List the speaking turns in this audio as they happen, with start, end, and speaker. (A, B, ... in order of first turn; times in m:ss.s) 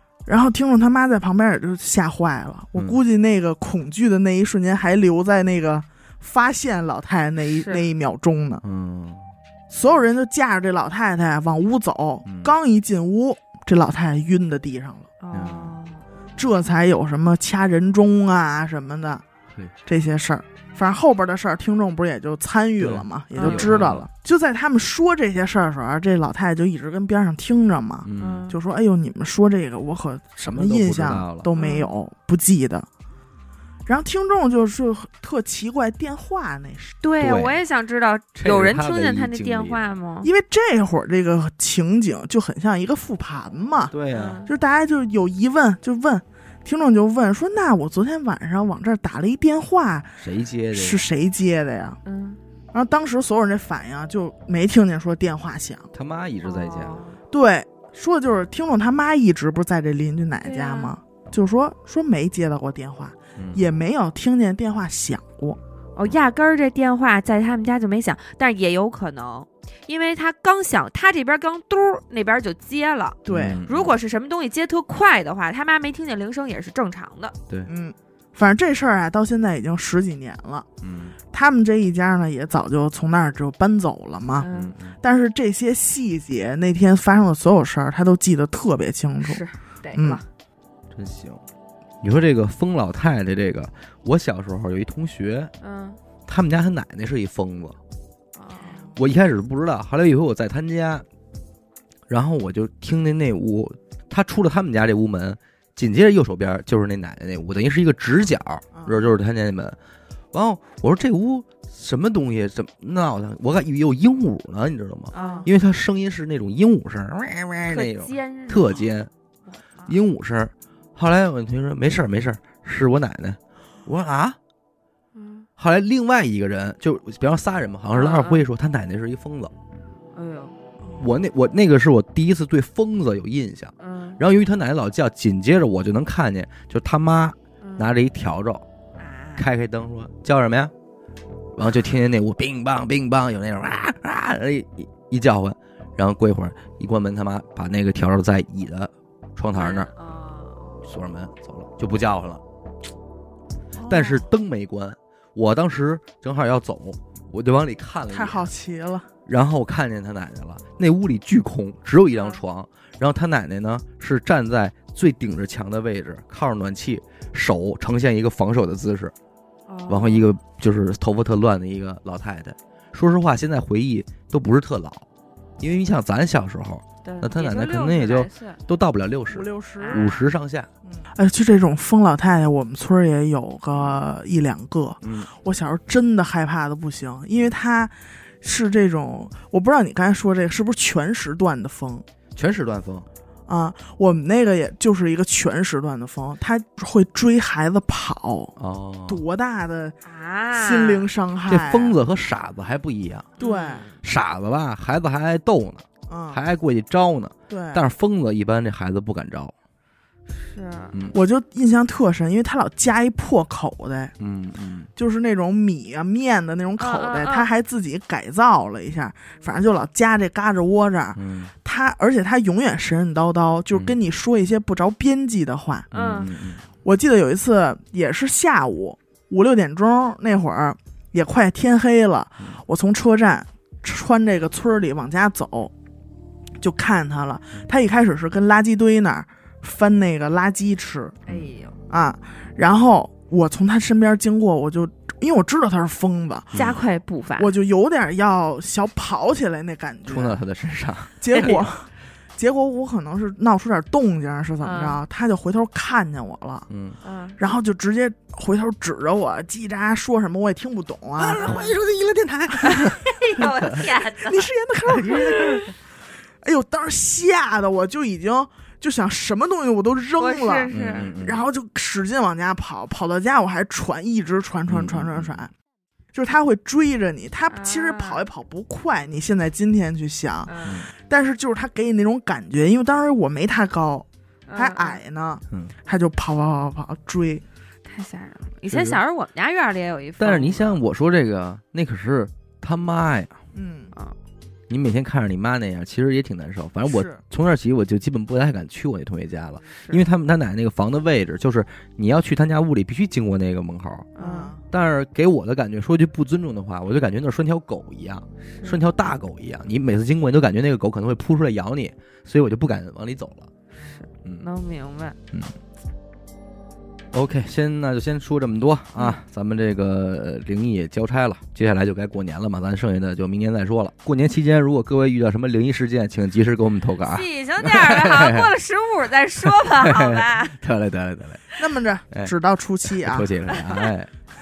0:00.3-0:08.6 A
0:07.4-0:07.9 B
0:08.6-0:09.3 C
0:09.7-0:15.1 A
0:12.2-0:12.5 C
0:15.2-0:16.0 B
0:15.3-0:15.8 C
0:16.4-0:19.2 A
0:19.9-0:32.9 A
0:22.8-0:24.1 C
0:23.4-0:23.8 B
0:28.0-0:28.5 C
0:28.2-0:28.6 B
0:30.4-0:31.5 C
0:31.6-0:31.9 B
0:33.9-0:37.0 A
0:37.0-0:40.3 B
0:37.2-0:37.6 C
0:38.4-0:39.8 C
0:40.2-0:43.9 A
0:43.9-0:44.4 C
0:44.1-0:44.5 B
0:44.5-0:50.1 A
0:50.2-0:51.0 C
0:50.7-0:52.0 A
0:52.0-0:52.4 B
0:52.7-0:55.9 A
0:55.9-0:57.0 C
0:56.4-0:57.2 B
0:57.3-1:05.6 A
1:00.4-1:01.0 B
1:03.4-1:03.7 C
1:06.0-1:17.4 B
1:13.3-1:13.6 A
1:13.3-1:14.0 C
1:17.7-1:20.7 A
1:20.8-1:21.2 C
1:21.3-1:24.5 A
1:24.4-1:24.8 B
1:24.5-1:25.0 C
1:25.0-1:29.4 A
1:29.2-1:30.2 B
1:29.9-1:30.2 A
1:30.9-1:31.4 C
1:32.0-1:35.5 C
1:35.6-1:36.0 B
1:36.3-1:37.8 C
1:38.4-1:38.9 B
1:39.0-1:41.0 C
1:42.1-1:49.8 C
1:48.7-1:49.0 A
1:50.3-1:59.1 C
1:55.1-1:55.5 B
1:55.1-1:55.5 A
1:57.7-1:58.9 B
1:59.5-2:00.0 B
1:59.8-2:04.4 C
2:05.2-2:05.5 B
2:05.6-2:09.5 C
2:07.9-2:08.5 B
2:10.1-2:10.6 B
2:11.0-2:18.6 C
2:13.8-2:14.2 B
2:17.6-2:17.9 B
2:19.0-2:19.5 B
2:19.4-2:20.7 C
2:21.5-2:29.9 C
2:29.5-2:30.8 B
2:30.8-2:32.4 C
2:33.8-2:34.3 A
2:33.9-2:38.5 C
2:38.1-2:39.1 A
2:39.3-2:49.1 C
2:42.1-2:42.4 B
2:49.7-2:50.3 B
2:49.9-2:55.1 C
2:55.6-3:00.7 C
2:57.0-2:58.6 B
2:59.3-3:00.2 A
2:59.8-3:00.3 B
3:00.9-3:12.0 A
3:03.7-3:04.0 C
3:05.0-3:05.3 C
3:12.4-3:13.1 C
3:13.5-3:18.6 A
3:18.6-3:19.2 C
3:19.1-3:20.0 A
3:20.0-3:21.1 B
3:20.5-3:22.0 A
3:21.5-3:23.4 C
3:23.4-3:24.0 B
3:23.4-3:23.9 A
3:24.0-3:29.5 C
3:26.1-3:26.4 A
3:27.5-3:27.9 A
3:30.3-3:31.0 B
3:31.1-3:34.1 A
3:34.2-3:34.9 C
3:35.0-3:45.9 A
3:36.8-3:37.5 B
3:41.2-3:41.5 C
3:45.9-3:46.6 C
3:45.9-3:46.3 B
3:46.8-3:55.7 A
3:56.6-4:01.2 A
4:01.2-4:01.8 B
4:01.9-4:06.6 A
4:06.5-4:06.8 C
4:06.6-4:07.6 B
4:07.4-4:10.4 A
4:10.1-4:11.6 C
4:11.2-4:16.7 A
4:11.3-4:11.7 B
4:14.6-4:15.0 B
4:16.7-4:17.0 C
4:17.0-4:17.4 B
4:17.4-4:21.7 A
4:21.2-4:23.8 C
4:21.4-4:21.7 B
4:22.5-4:25.7 A
4:22.6-4:24.5 B
4:25.0-4:25.7 C
4:25.1-4:25.6 B
4:26.4-4:35.5 A
4:30.2-4:31.1 B
4:30.7-4:31.4 C
4:34.7-4:35.4 C
4:36.1-4:47.4 A
4:37.5-4:38.3 B
4:40.5-4:40.8 B
4:40.6-4:40.9 C
4:44.5-4:45.0 B
4:47.8-4:50.8 B
4:48.7-4:49.0 C
4:50.2-4:53.4 C
4:53.5-4:53.9 A
4:54.7-5:04.1 C
4:56.8-4:57.2 A
5:04.2-5:04.5 B
5:04.2-5:04.6 A
5:04.7-5:13.5 C
5:08.5-5:08.8 B
5:13.7-5:15.2 B
5:15.3-5:15.6 C
5:17.1-5:28.5 C
5:27.0-5:30.6 B
5:29.4-5:31.4 C
5:31.6-5:33.4 A
5:32.8-5:34.1 C
5:33.5-5:33.9 B